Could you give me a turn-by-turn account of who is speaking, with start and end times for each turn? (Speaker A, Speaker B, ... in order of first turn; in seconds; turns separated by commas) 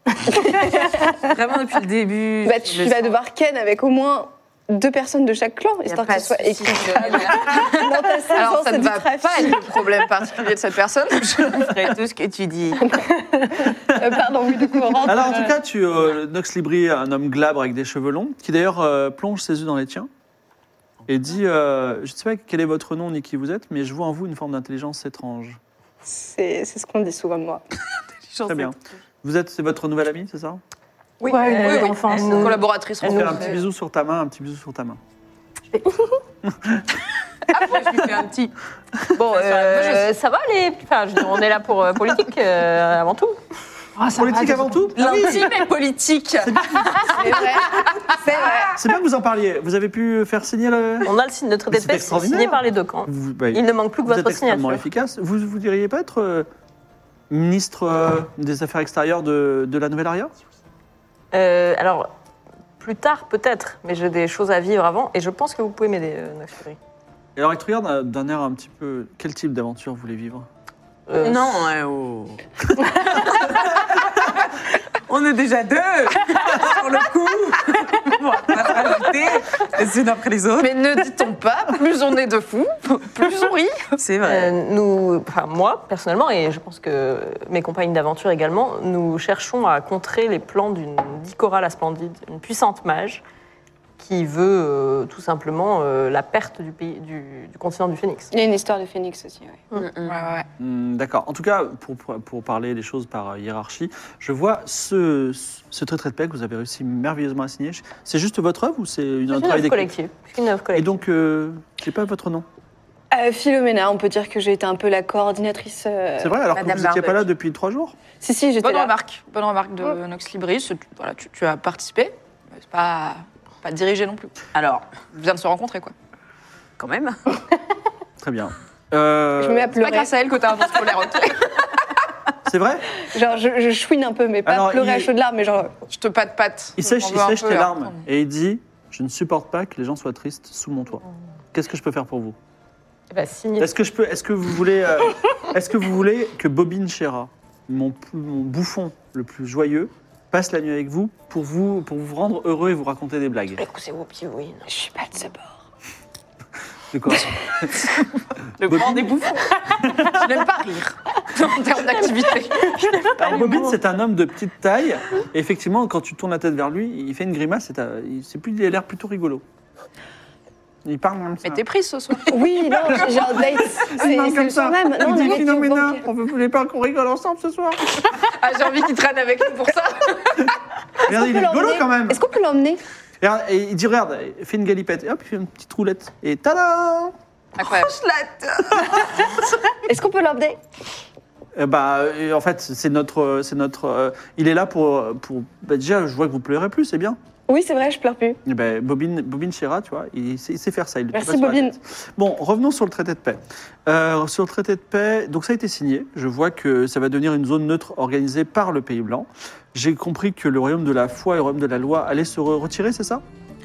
Speaker A: 0.3-3.2, Speaker B: 0.5-0.9, Speaker B: 2.4-9.9, Speaker A: 5.9-8.0, Speaker C: 8.3-11.7, Speaker A: 11.5-12.9, Speaker B: 13.5-15.5, Speaker D: 13.9-14.2, Speaker D: 15.0-20.1, Speaker D: 21.1-25.6, Speaker B: 26.1-27.6, Speaker A: 28.3-28.8, Speaker D: 28.5-30.6, Speaker C: 31.2-33.6, Speaker E: 31.3-32.6, Speaker F: 31.3-32.7, Speaker D: 33.0-35.0, Speaker F: 35.7-36.2, Speaker D: 36.5-36.9, Speaker C: 37.5-37.9, Speaker A: 37.5-38.5, Speaker E: 39.1-43.4, Speaker C: 39.2-40.1, Speaker F: 44.0-45.0, Speaker D: 44.1-45.5, Speaker C: 45.0-48.7, Speaker D: 46.4-47.2, Speaker B: 47.1-48.8, Speaker D: 48.8-51.1, Speaker E: 51.0-54.9, Speaker D: 51.7-56.5, Speaker D: 57.3-60.3, Speaker E: 61.3-62.1, Speaker E: 62.8-66.8, Speaker D: 67.4-70.5, Speaker E: 71.1-71.6, Speaker A: 71.2-72.4, Speaker A: 73.0-73.8, Speaker A: 75.1-80.7, Speaker C: 80.6-83.8, Speaker A: 84.0-84.5, Speaker E: 84.2-93.2, Speaker E: 94.0-98.3, Speaker B: 98.3-99.7, Speaker A: 99.8-100.2, Speaker C: 100.0-100.5, Speaker D: 100.6-109.9, Speaker E: 109.3-111.0, Speaker D: 110.7-112.5, Speaker B: 113.1-116.4, Speaker D: 116.2-118.0, Speaker A: 116.5-117.3, Speaker B: 118.2-118.9, Speaker C: 118.6-124.3, Speaker A: 124.5-124.8, Speaker C: 125.1-125.9, Speaker A: 126.8-127.2, Speaker D: 128.2-129.8, Speaker B: 129.4-130.1, Speaker C: 129.8-131.7, Speaker D: 132.4-132.9, Speaker B: 133.1-135.7, Speaker D: 134.4-135.1, Speaker C: 135.9-138.1, Speaker D: 136.8-141.0, Speaker D: 141.5-142.4, Speaker E: 143.1-143.7, Speaker D: 143.6-153.6, Speaker E: 153.6-154.6, Speaker B: 154.7-155.5, Speaker D: 156.9-157.9, Speaker D: 158.6-159.2, Speaker C: 158.6-163.1, Speaker D: 159.8-160.4, Speaker D: 163.1-169.4, Speaker D: 170.8-171.6, Speaker C: 171.4-173.4, Speaker B: 172.3-176.0, Speaker D: 172.9-177.9, Speaker C: 178.2-180.5, Speaker D: 181.1-182.2, Speaker B: 181.1-182.8, Speaker D: 183.2-187.1, Speaker C: 187.6-188.0, Speaker A: 187.6-189.2, Speaker B: 189.9-190.6, Speaker D: 191.6-197.2, Speaker B: 197.5-198.4, Speaker D: 198.5-213.2, Speaker B: 201.1-201.8